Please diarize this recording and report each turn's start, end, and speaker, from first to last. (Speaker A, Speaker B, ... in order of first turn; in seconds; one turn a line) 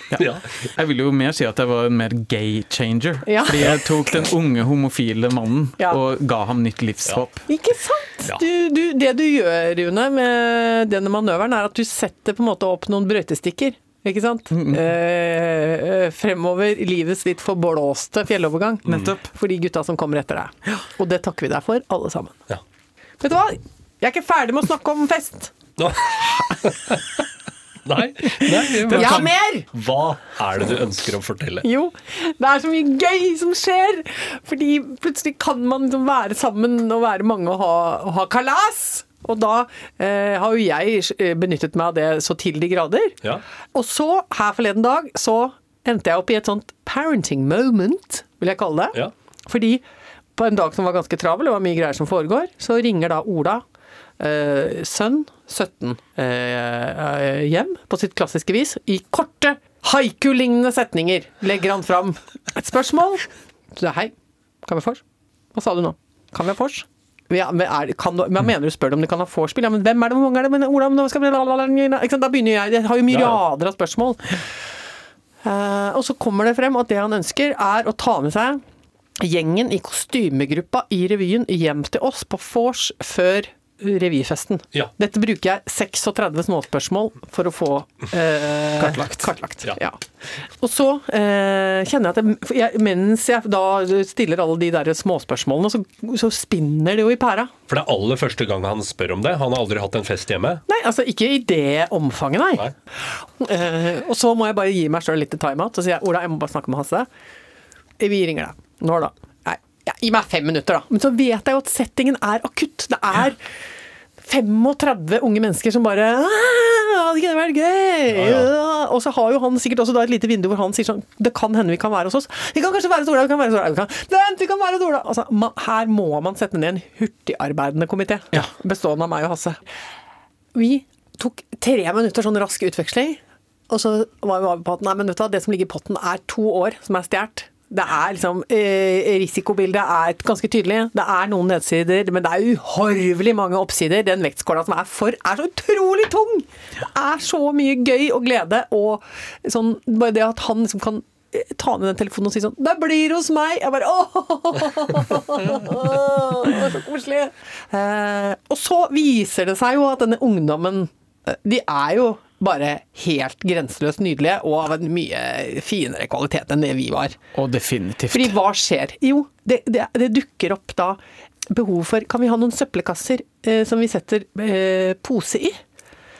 Speaker A: 0.1-7.4
Speaker B: 0.2-0.5
Speaker C: 3.2-3.7
Speaker C: 7.5-22.4
Speaker A: 14.5-14.8
Speaker B: 18.9-19.1
Speaker A: 18.9-19.2
Speaker C: 23.2-25.5
Speaker B: 25.8-27.0
Speaker B: 27.8-31.6
Speaker A: 28.4-29.3
Speaker C: 28.9-29.6
Speaker C: 31.6-43.2
Speaker C: 43.7-49.8
Speaker C: 50.4-53.6
Speaker C: 54.2-64.1
Speaker C: 64.6-65.0
Speaker C: 65.5-74.4
Speaker B: 73.1-73.4
Speaker C: 75.4-78.6
Speaker C: 79.2-90.0
Speaker A: 88.8-89.3
Speaker C: 90.6-97.5
Speaker B: 97.7-100.6
Speaker C: 100.7-107.1
Speaker C: 108.0-113.4
Speaker C: 114.2-129.6
Speaker B: 118.1-118.5
Speaker C: 130.5-167.2
Speaker A: 167.3-168.3
Speaker C: 168.1-171.0
Speaker C: 171.5-175.6